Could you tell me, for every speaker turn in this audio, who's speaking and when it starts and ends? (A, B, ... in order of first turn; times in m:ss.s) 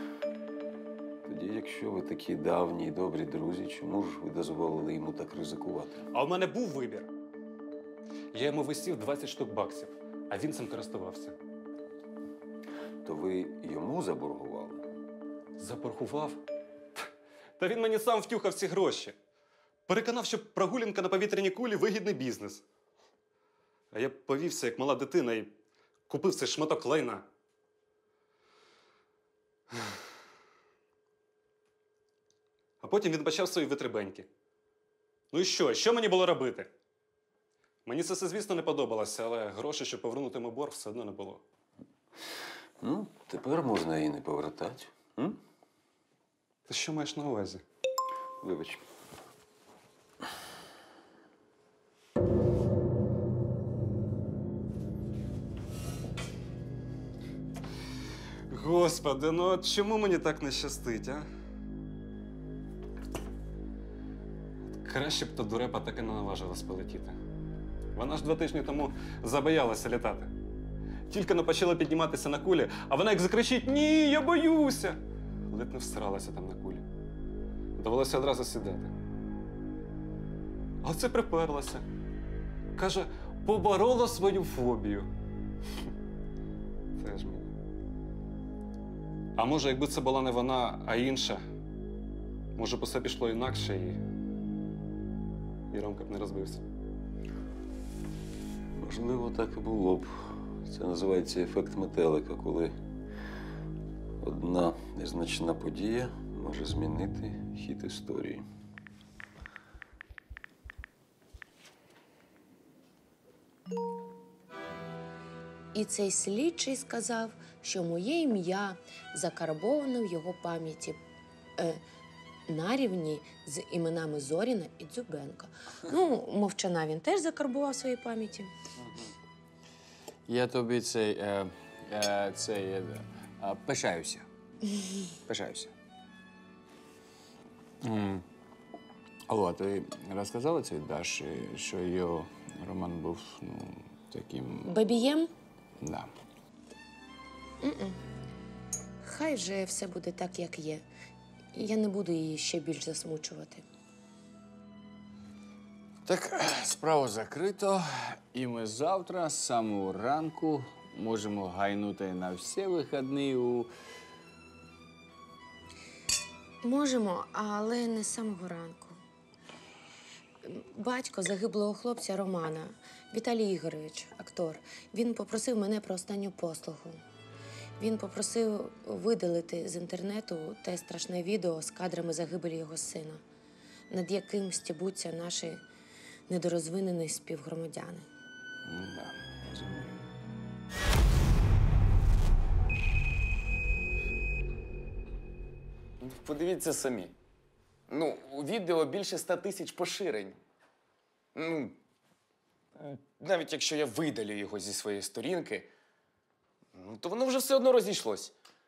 0:01.2-0:06.1 A
0:06.1-0:07.1 B
0:08.3-0:11.3 B
0:13.0-0:14.8 A
0:15.6-0:16.4 B
0:17.6-0:19.2 B
0:19.9-0:22.6 B
0:23.9-0:25.5 B
0:26.1-0:27.2 B
0:32.8-0:34.3 B
0:35.3-0:36.7 B
0:37.8-0:41.4 B
0:42.8-0:45.4 A
0:46.7-0:47.6 B
0:48.4-0:48.8 A
0:58.5-1:01.2 B
1:04.8-1:07.2 B
1:07.9-1:10.3 B
1:11.1-1:16.8 B
1:17.8-1:18.9 B
1:20.8-1:21.8 B
1:22.8-1:25.1 B
1:27.0-1:27.5 B
1:29.4-1:31.4 B
1:32.6-1:34.0 B
1:35.7-1:36.6 B
1:38.8-1:42.7 A
1:44.2-1:48.4 A
1:55.7-2:01.0 C
2:01.6-2:01.8 C
2:02.5-2:08.5 C
2:10.2-2:14.3 D
2:15.3-2:15.7 D
2:17.8-2:18.2 D
2:19.3-2:24.7 D
2:24.6-2:25.3 C
2:25.8-2:26.1 D
2:27.6-2:28.0 C
2:29.0-2:30.8 C
2:31.5-2:33.6 C
2:36.0-2:43.7 D
2:46.6-2:49.0 C
2:50.4-2:57.0 C
2:57.8-3:03.2 C
3:03.9-3:05.6 C
3:06.3-3:08.0 C
3:08.6-3:10.0 D
3:16.0-3:17.1 E
3:17.9-3:20.4 E
3:21.3-3:21.8 E
3:23.2-3:25.7 E
3:26.7-3:28.3 E